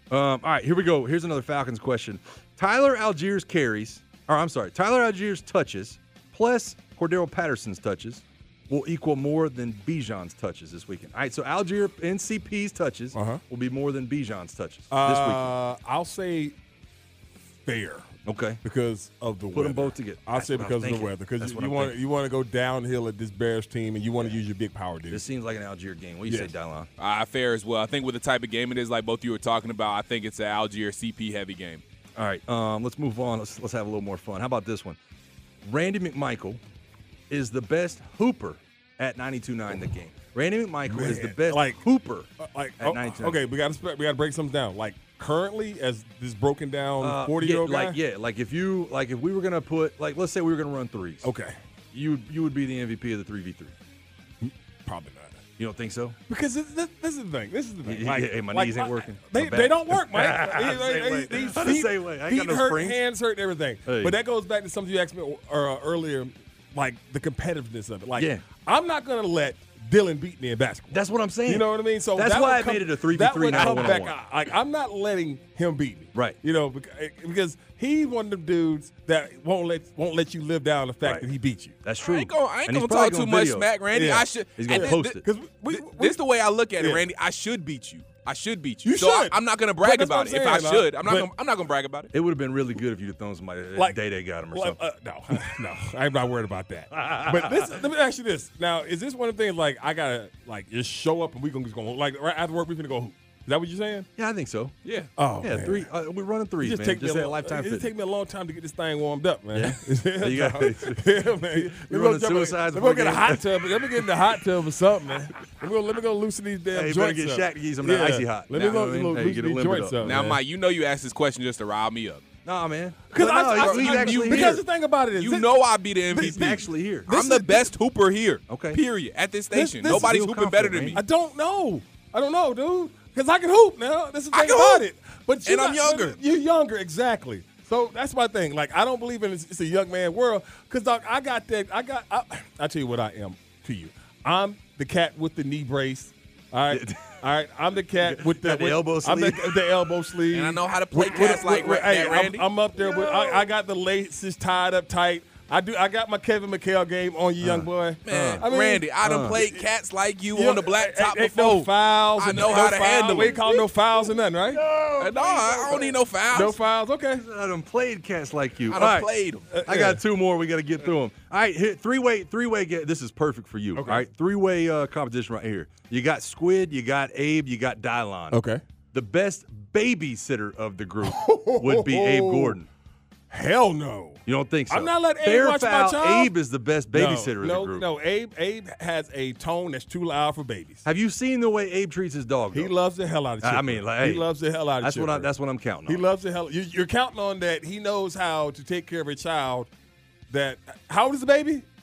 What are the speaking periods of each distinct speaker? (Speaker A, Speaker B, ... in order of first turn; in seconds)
Speaker A: 0.1-15.5, 18.2-18.6, 19.5-22.0, 25.1-26.9, 32.1-35.0, 35.6-36.6, 37.3-43.4, 47.0-51.3, 51.9-53.7, 55.6-56.2, 57.8-63.0, 63.9-64.2, 68.2-68.4, 70.9-74.1, 81.8-83.7, 84.5-85.2, 92.1-94.8, 96.9-97.8, 104.2-104.7, 105.4-107.9, 109.5-114.4, 116.7-120.1, 122.4-124.6, 126.2-127.1, 128.5-128.8, 129.8-131.0, 146.7-147.2, 147.9-149.6, 157.4-158.4, 159.0-159.4, 167.2-169.1, 169.6-178.4, 178.9-182.7, 184.2-187.8, 190.8-192.7, 193.4-194.3, 194.8-196.0
Speaker B: 13.1-13.4, 14.9-16.6, 17.6-18.1, 18.6-25.2, 26.3-26.5, 40.9-41.8, 42.4-48.0, 51.2-51.6, 54.4-55.4, 56.3-81.8, 83.9-86.2, 86.8-87.0, 88.8-91.3, 94.5-104.1, 105.2-105.9, 106.6-120.4, 123.1-127.7, 129.5-130.2, 130.9-159.6, 160.3-167.2, 169.5-170.0, 173.8-174.0, 178.3-178.6, 181.0-182.6, 183.3-186.3, 186.9-190.8, 192.5-195.3, 195.8-199.7, 200.3-201.7
Speaker C: 27.0-31.8, 82.0-92.1, 104.8-105.1, 120.0-122.2, 123.6-124.6, 125.1-131.0, 134.3-134.8, 135.4-136.2, 150.3-152.4, 158.1-163.6, 164.6-166.6, 168.7-169.5